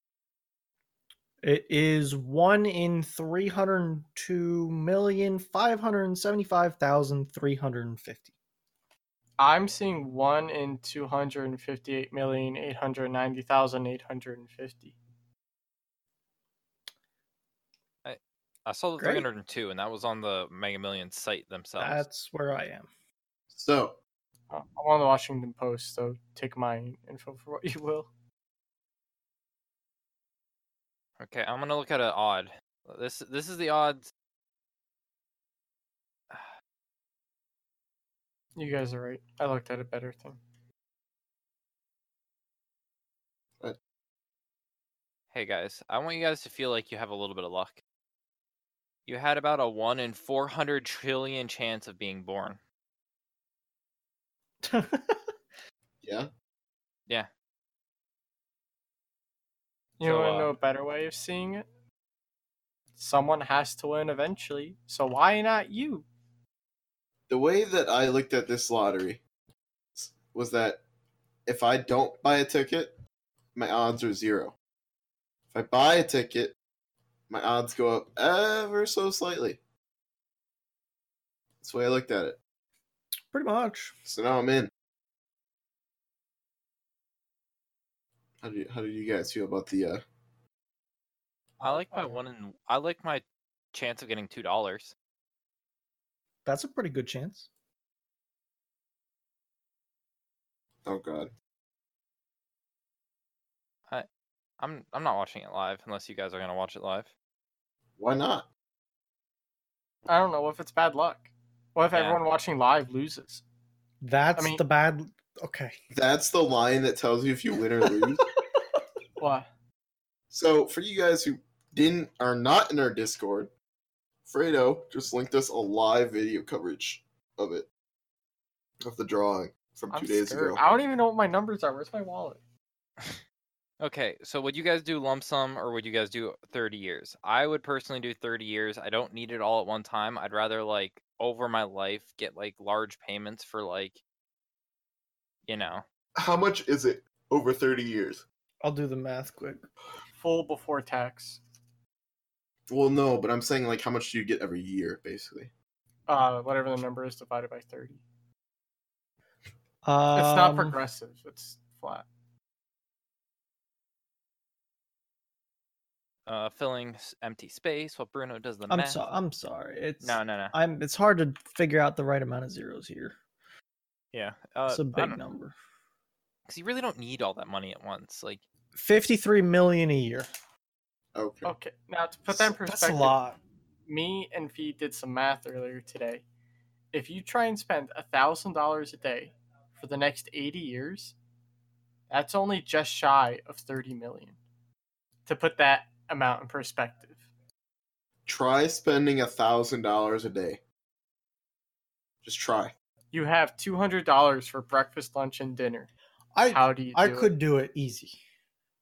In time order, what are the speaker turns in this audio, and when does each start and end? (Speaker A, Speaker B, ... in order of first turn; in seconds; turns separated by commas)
Speaker A: 1.4-8.3, Speaker B: 9.4-14.9, Speaker C: 18.1-22.0, Speaker A: 19.0-19.3, Speaker A: 21.8-22.9, Speaker D: 23.5-24.0, Speaker B: 24.5-28.1, Speaker C: 31.2-34.1, Speaker B: 38.6-40.4, Speaker C: 45.3-47.8, Speaker C: 49.1-52.6, Speaker A: 54.6-55.3, Speaker D: 56.0-56.3, Speaker B: 60.0-61.7, Speaker C: 60.0-60.5, Speaker B: 63.0-66.1, Speaker D: 67.3-69.2, Speaker D: 70.0-70.8, Speaker D: 71.5-73.0, Speaker D: 73.5-74.5, Speaker D: 75.5-76.5, Speaker D: 77.3-79.6, Speaker D: 81.6-82.4, Speaker A: 83.3-83.9, Speaker D: 84.0-84.7, Speaker D: 88.4-90.0, Speaker B: 91.6-92.2, Speaker C: 91.6-94.9, Speaker A: 96.5-97.5, Speaker D: 100.8-101.3, Speaker C: 104.6-107.1, Speaker D: 108.0-108.5, Speaker B: 110.1-113.4, Speaker C: 111.9-112.2, Speaker A: 114.0-115.7, Speaker B: 114.4-114.6, Speaker D: 115.9-118.2, Speaker A: 117.9-118.2, Speaker B: 119.2-119.5, Speaker D: 120.3-123.5, Speaker D: 124.3-127.7, Speaker D: 128.8-130.6, Speaker B: 129.9-132.4, Speaker C: 133.8-144.0, Speaker C: 145.5-145.8, Speaker D: 146.2-148.2, Speaker A: 148.6-149.7, Speaker B: 150.2-151.4, Speaker D: 152.7-155.5, Speaker B: 156.1-158.0, Speaker A: 159.8-160.8, Speaker B: 160.2-162.1, Speaker C: 166.3-169.0, Speaker A: 168.7-173.2, Speaker C: 170.0-170.5, Speaker C: 174.1-175.2, Speaker A: 174.7-175.6, Speaker C: 176.5-178.4, Speaker A: 178.8-180.3, Speaker D: 181.2-181.5, Speaker B: 181.4-183.2, Speaker A: 182.3-183.4, Speaker B: 183.9-186.2, Speaker B: 186.9-191.2, Speaker B: 192.1-194.4, Speaker B: 195.3-197.2, Speaker D: 198.3-200.6, Speaker D: 202.2-202.7, Speaker B: 203.1-205.9, Speaker A: 206.3-208.2, Speaker B: 206.5-207.3